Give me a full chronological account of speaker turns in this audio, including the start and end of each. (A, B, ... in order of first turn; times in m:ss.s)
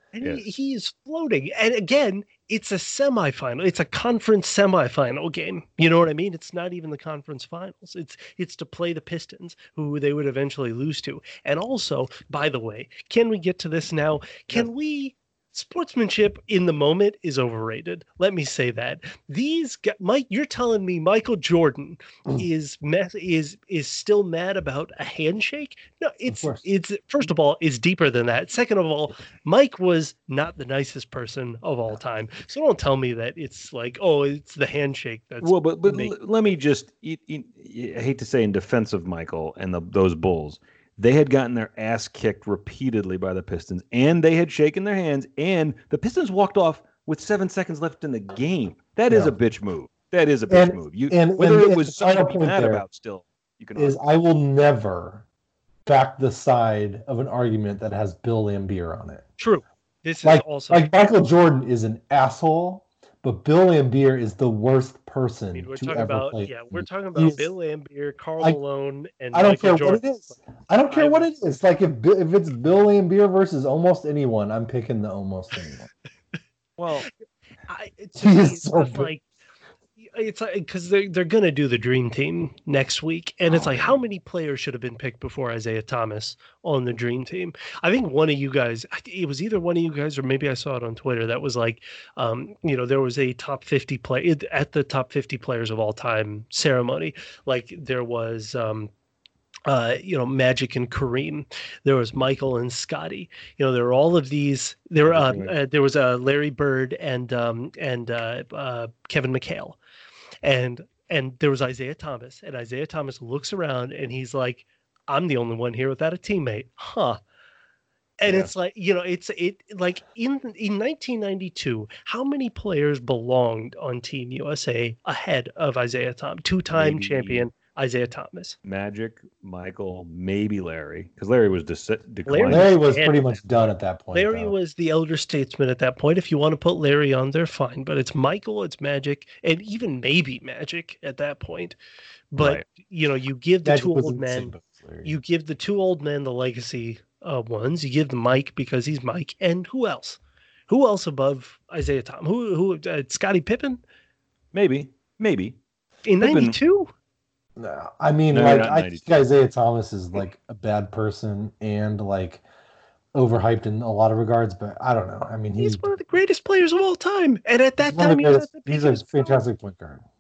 0:00.1-0:35.6 A
0:00.2-0:00.5 B
0:26.3-0:26.7 C
0:35.4-0:54.0 B
0:49.1-0:49.3 C
0:50.5-0:52.8 C
0:53.8-0:55.2 C
0:55.9-0:59.3 C
0:59.4-1:00.9 A
1:00.2-1:07.5 C
1:05.5-1:11.3 A
1:09.3-1:15.9 C
1:16.8-1:17.1 B
1:17.7-1:19.2 A
1:18.2-1:19.1 C
1:20.0-1:38.9 A
1:39.7-1:49.8 A
1:45.0-1:45.5 B
1:50.4-1:57.2 A
1:58.2-2:08.6 A
1:58.3-1:58.5 B
2:06.7-2:07.5 B
2:08.6-2:12.7 B
2:12.3-2:13.3 A
2:12.5-2:14.5 C
2:14.1-2:21.8 A
2:22.3-2:24.5 A
2:22.4-2:22.6 B
2:23.6-2:25.1 C
2:25.0-2:33.8 A
2:34.5-2:35.6 B
2:36.1-2:36.9 A
2:36.2-2:36.6 B
2:37.6-2:42.4 C
2:38.3-2:39.2 B
2:43.1-2:45.9 C
2:45.6-2:49.4 A
2:47.8-2:50.0 C